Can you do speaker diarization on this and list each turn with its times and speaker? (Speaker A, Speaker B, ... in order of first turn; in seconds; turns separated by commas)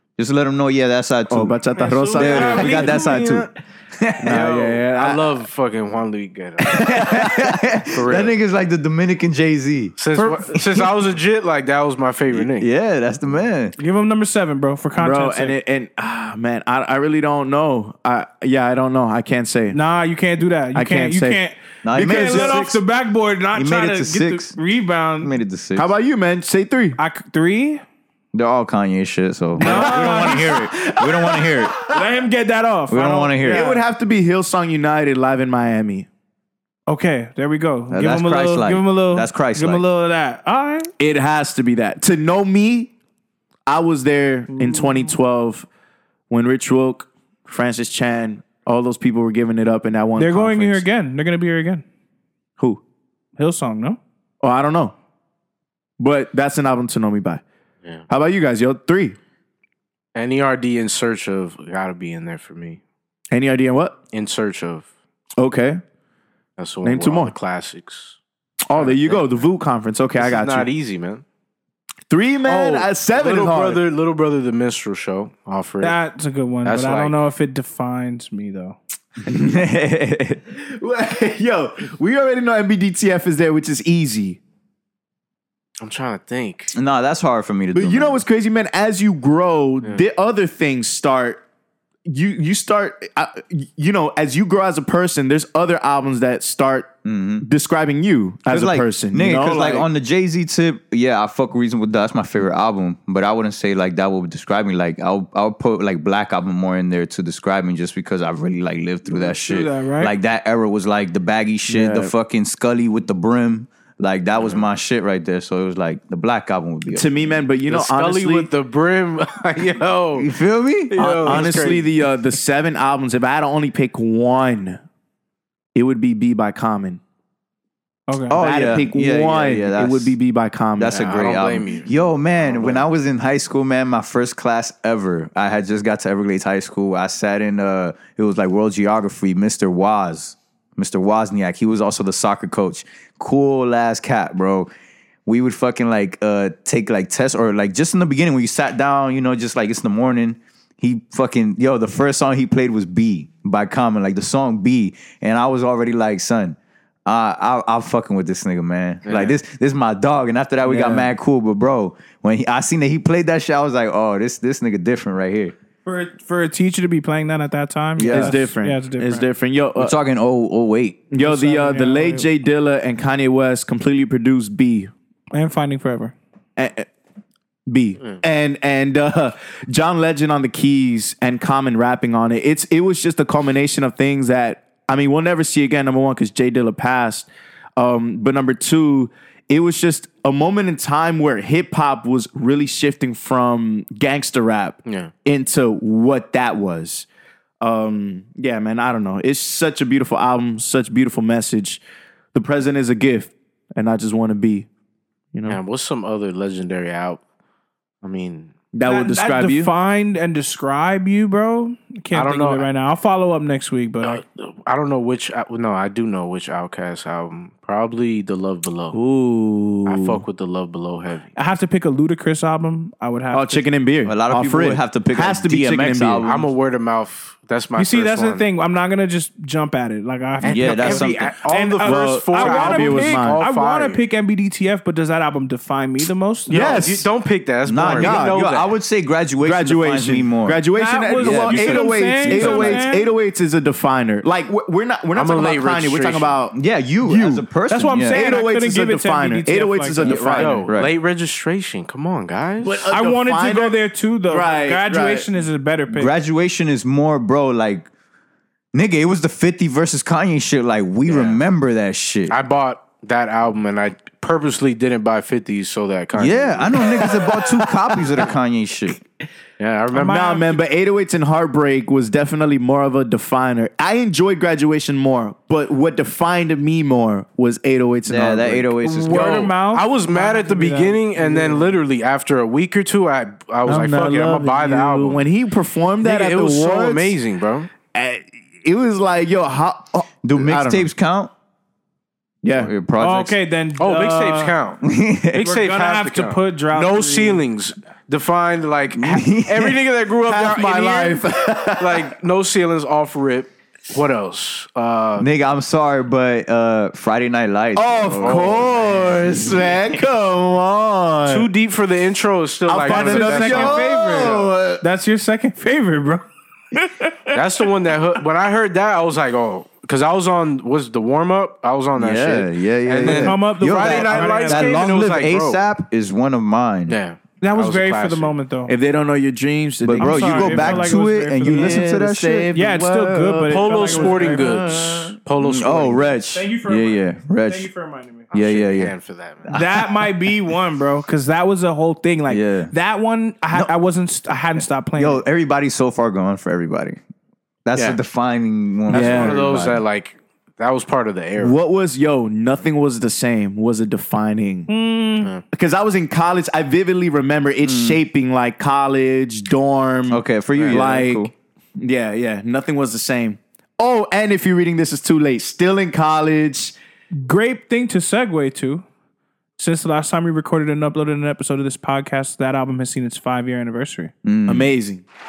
Speaker A: 0.2-1.6, Speaker B: 1.3-3.1, Speaker C: 2.0-2.9, Speaker D: 2.0-3.5, Speaker A: 2.1-4.4, Speaker B: 4.2-5.2, Speaker C: 4.3-7.1, Speaker A: 6.7-10.9, Speaker C: 7.9-8.3, Speaker C: 10.0-12.7, Speaker A: 12.3-13.7, Speaker D: 13.8-15.6, Speaker B: 15.0-19.8, Speaker D: 19.7-25.3, Speaker B: 20.7-22.8, Speaker A: 21.8-22.8, Speaker A: 23.5-24.6, Speaker A: 25.2-25.9, Speaker B: 25.7-27.0, Speaker D: 27.0-27.8, Speaker A: 28.3-31.8, Speaker D: 29.6-30.9, Speaker B: 29.6-31.4, Speaker D: 31.7-33.8, Speaker A: 32.9-33.7, Speaker B: 33.4-36.1, Speaker D: 36.9-40.9, Speaker A: 37.9-39.8, Speaker B: 41.0-42.9, Speaker B: 43.7-45.7, Speaker D: 44.5-45.1, Speaker B: 46.3-50.9, Speaker D: 50.2-51.8, Speaker D: 53.4-54.0, Speaker B: 54.4-54.9, Speaker B: 56.0-57.4, Speaker B: 58.1-59.2, Speaker C: 60.1-62.8, Speaker B: 63.3-64.0, Speaker C: 64.1-64.8, Speaker B: 65.4-65.8, Speaker C: 66.6-68.2, Speaker B: 66.8-67.3, Speaker B: 68.7-70.7, Speaker C: 68.7-69.3, Speaker C: 70.2-71.2, Speaker B: 72.1-73.8, Speaker C: 72.4-76.0, Speaker D: 75.8-78.8, Speaker C: 76.6-77.2, Speaker A: 79.2-80.4, Speaker B: 80.5-84.4, Speaker C: 85.8-86.7, Speaker A: 86.7-88.2, Speaker B: 87.7-91.4, Speaker B: 92.0-99.9, Speaker A: 97.0-97.5, Speaker A: 98.5-117.2, Speaker D: 109.2-110.1, Speaker B: 111.7-112.1, Speaker C: 114.4-114.7, Speaker B: 116.9-118.5, Speaker C: 117.7-120.3, Speaker A: 120.1-121.7, Speaker C: 120.9-121.9, Speaker B: 121.0-124.8, Speaker B: 125.7-127.0, Speaker D: 128.1-128.4, Speaker A: 128.3-130.1, Speaker B: 128.3-131.0, Speaker A: 130.8-144.7, Speaker C: 130.9-132.8, Speaker A: 145.2-165.5, Speaker C: 159.1-159.3, Speaker B: 160.6-161.1, Speaker D: 165.8-169.3, Speaker A: 168.0-168.3, Speaker B: 168.1-169.9, Speaker A: 169.8-171.0, Speaker B: 171.1-174.9, Speaker D: 171.1-172.3, Speaker D: 175.3-176.1, Speaker B: 176.6-176.9, Speaker B: 177.7-197.1, Speaker C: 194.8-195.1, Speaker B: 197.6-201.8, Speaker B: 202.3-204.7, Speaker B: 205.3-205.6, Speaker C: 205.5-207.2, Speaker C: 208.0-208.5, Speaker B: 208.7-209.7, Speaker D: 208.8-214.2, Speaker C: 212.1-212.7, Speaker C: 214.0-219.0, Speaker B: 218.9-220.2, Speaker C: 219.8-221.3, Speaker D: 221.3-223.6, Speaker B: 223.3-226.3, Speaker A: 224.1-226.5, Speaker C: 226.2-228.4, Speaker D: 227.8-236.8, Speaker C: 230.4-234.0, Speaker A: 230.4-231.3, Speaker B: 231.8-233.4, Speaker B: 236.5-237.1, Speaker C: 236.5-238.7, Speaker A: 237.7-240.6, Speaker B: 237.9-238.4, Speaker B: 239.4-247.4, Speaker D: 240.7-243.1, Speaker A: 241.2-242.8, Speaker C: 245.1-246.3, Speaker A: 246.5-248.2, Speaker D: 247.7-250.4, Speaker B: 248.1-250.6, Speaker A: 250.0-250.9, Speaker C: 250.2-252.8, Speaker B: 252.6-255.3, Speaker D: 252.9-256.1, Speaker A: 255.9-257.9, Speaker A: 258.7-262.4, Speaker C: 261.1-261.4, Speaker C: 262.3-267.0, Speaker A: 266.1-269.0, Speaker B: 267.3-267.9, Speaker C: 269.6-270.4, Speaker D: 269.9-270.4, Speaker B: 269.9-278.7, Speaker A: 278.1-279.5, Speaker D: 278.8-281.7, Speaker C: 279.1-285.2, Speaker B: 283.6-287.1, Speaker C: 286.0-287.7, Speaker B: 287.9-290.9, Speaker A: 290.2-291.3, Speaker B: 292.4-292.7, Speaker A: 292.5-293.4, Speaker D: 293.0-294.5, Speaker C: 293.8-294.8, Speaker A: 294.8-295.4, Speaker C: 295.3-305.3, Speaker D: 295.4-297.4, Speaker A: 298.9-299.8, Speaker B: 300.3-302.1, Speaker A: 305.2-308.7, Speaker B: 307.7-311.5, Speaker C: 308.1-309.3, Speaker C: 311.3-313.9, Speaker B: 312.7-314.5, Speaker D: 312.9-316.2, Speaker A: 313.4-314.8, Speaker D: 316.7-317.4, Speaker C: 317.3-325.6, Speaker A: 321.9-326.9, Speaker D: 323.0-325.1, Speaker C: 326.9-328.3, Speaker D: 327.4-328.7, Speaker B: 328.7-335.1, Speaker A: 329.8-332.5, Speaker D: 330.0-331.9, Speaker D: 332.5-334.7, Speaker C: 333.5-336.1, Speaker A: 335.4-337.7, Speaker D: 336.3-338.3, Speaker A: 338.3-338.9, Speaker C: 338.3-339.5, Speaker A: 339.5-339.9, Speaker D: 339.5-345.2, Speaker A: 342.3-342.7, Speaker A: 344.9-347.0, Speaker A: 347.6-349.8, Speaker C: 348.9-351.6, Speaker B: 348.9-349.4, Speaker B: 351.4-354.7, Speaker D: 354.7-355.3, Speaker B: 355.5-366.7, Speaker A: 357.6-358.0, Speaker A: 360.1-361.3, Speaker C: 360.5-360.9, Speaker D: 367.2-368.8, Speaker D: 369.6-374.1, Speaker A: 374.2-374.7, Speaker B: 374.5-375.0